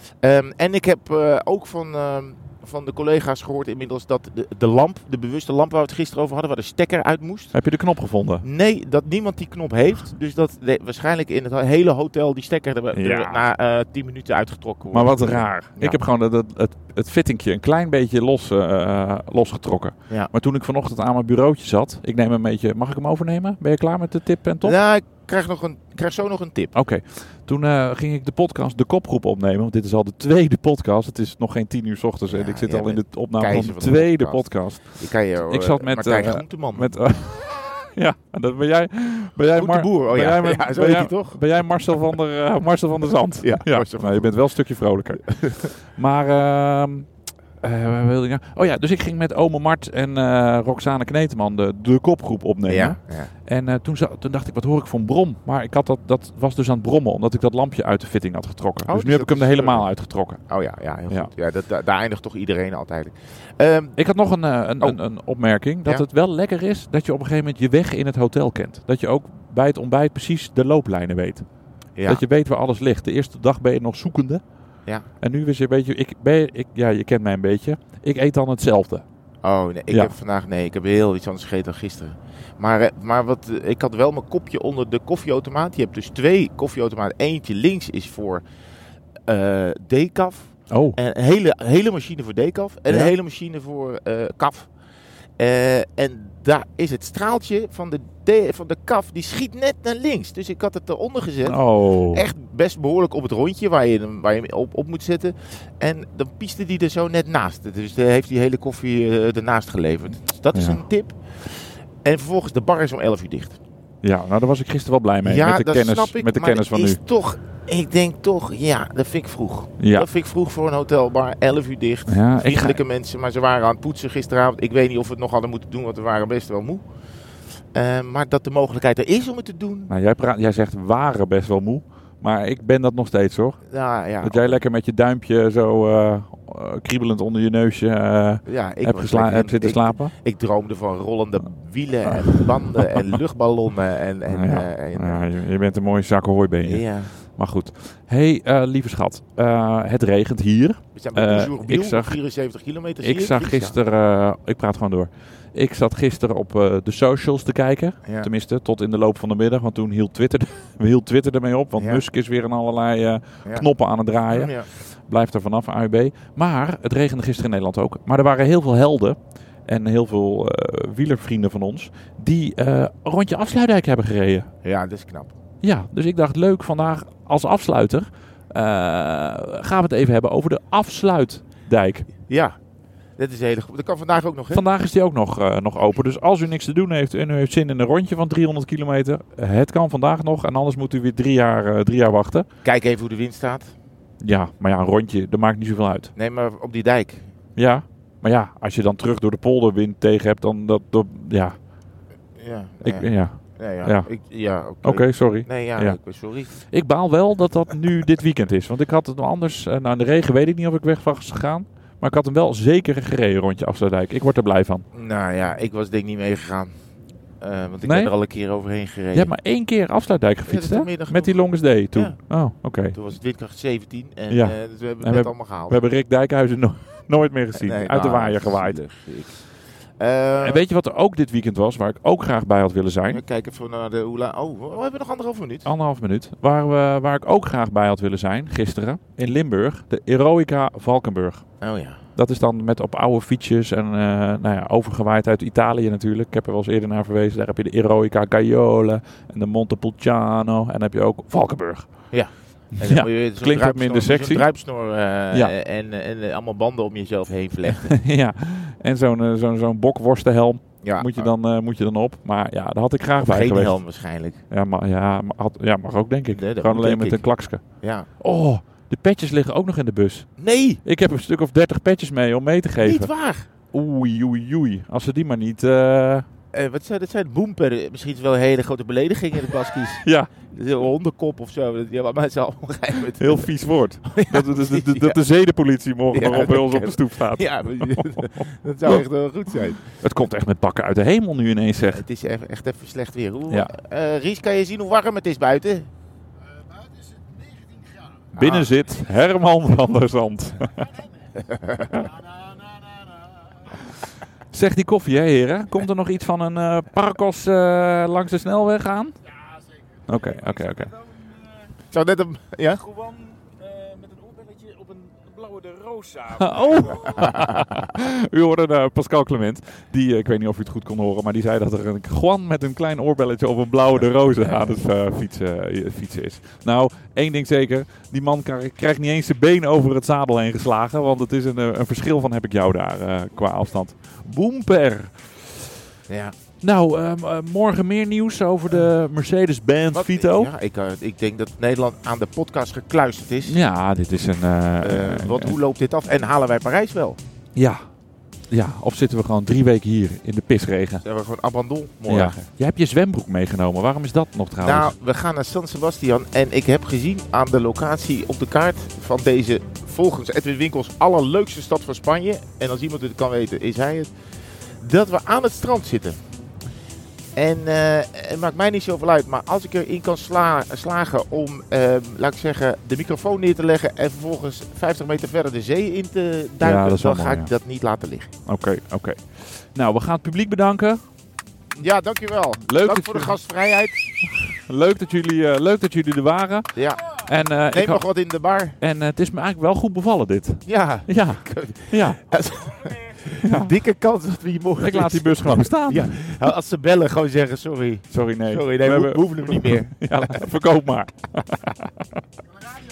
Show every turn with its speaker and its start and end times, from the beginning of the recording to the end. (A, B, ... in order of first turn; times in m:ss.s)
0:00.2-0:07.5 A
0:07.5-0:08.4 B
0:08.4-0:16.0 A
0:12.9-0:13.4 B
0:14.9-0:24.8 B
0:24.6-0:26.7 A
0:26.7-0:47.1 B
0:32.3-0:37.0 A
0:39.5-0:41.4 A
0:43.4-0:44.4 A
0:45.2-0:45.6 A
0:47.6-1:00.4 B
0:52.7-0:53.3 A
0:58.9-0:59.9 A
1:00.5-1:04.0 A
1:04.0-1:11.4 B
1:12.0-1:12.2 A
1:12.0-1:14.4 B
1:15.2-1:19.0 B
1:19.4-1:28.4 A
1:29.3-1:34.7 A
1:30.7-1:31.0 B
1:35.4-1:53.6 A
1:41.4-1:42.2 B
1:50.5-1:50.8 B
1:54.0-1:57.0 B
1:55.2-2:06.8 A
1:59.8-2:00.1 B
2:02.1-2:02.8 B
2:07.7-2:09.9 A
2:09.9-2:13.6 B
2:13.7-2:14.6 A
2:14.2-2:20.1 B
2:18.4-2:25.3 A
2:22.1-2:23.1 B
2:24.3-2:32.2 B
2:26.6-2:27.1 A
2:30.9-2:33.8 A
2:33.0-2:54.5 B
2:41.8-2:42.0 A
2:44.3-2:44.7 A
2:54.6-2:55.3 A
2:55.6-3:02.1 B
3:02.3-3:02.6 A
3:03.2-3:04.6 A
3:04.5-3:12.5 B
3:12.6-3:13.7 A
3:14.2-3:16.1 B
3:16.1-3:17.2 A
3:17.6-3:21.6 B
3:22.4-3:26.5 A
3:22.8-3:24.1 B
3:24.8-3:26.0 B
3:26.5-3:34.8 B
3:34.9-3:36.7 A
3:37.4-3:39.3 A
3:37.8-3:38.1 B
3:39.1-3:43.0 B
3:40.4-3:42.2 A
3:42.9-3:45.8 A
3:44.3-3:48.8 B
3:47.5-3:49.3 A
3:50.0-3:50.6 A
3:50.4-3:53.2 B
3:53.1-3:55.7 A
3:55.6-4:01.4 B
4:01.6-4:02.0 A
4:02.2-4:11.9 B
4:12.1-4:18.0 A
4:12.8-4:14.5 B
4:17.7-4:23.8 B
4:20.8-4:21.3 A
4:23.2-4:24.4 A
4:24.5-4:27.6 B
4:26.3-4:28.1 A
4:28.2-4:30.3 B
4:30.4-4:30.8 A
4:30.8-4:36.2 B
4:32.8-4:33.5 A
4:36.5-4:45.2 A
4:40.0-4:40.3 B
4:43.2-4:49.0 B
4:46.1-4:49.8 A
4:49.8-4:52.0 B
4:51.9-4:55.9 A
4:57.0-4:57.8 C
4:58.3-5:00.9 B
4:58.4-4:58.7 A
5:01.4-5:02.0 A
5:04.5-5:09.2 B
5:10.1-5:11.0 B
5:11.9-5:12.9 A
5:13.9-5:16.1 C
5:16.3-5:35.6 B
5:17.2-5:17.6 A
5:24.4-5:24.8 A
5:36.1-5:36.3 A
5:36.6-5:40.5 B
5:39.9-5:43.6 A
5:43.4-5:45.6 B
5:44.8-5:47.2 A
5:47.6-5:47.9 B
5:48.5-5:51.0 B
5:51.0-5:52.4 A
5:52.1-5:54.9 B
5:54.6-6:04.1 A
6:04.8-6:06.2 A
6:07.4-6:18.3 A
6:16.6-6:17.5 B
6:18.4-6:21.0 B
6:21.8-6:24.0 A
6:22.6-6:23.4 B
6:24.3-6:28.0 B
6:26.7-6:27.0 A
6:27.7-6:28.8 A
6:28.8-6:32.2 B
6:30.6-6:40.5 A
6:33.4-6:33.7 B
6:34.8-6:36.5 B
6:38.1-6:42.1 B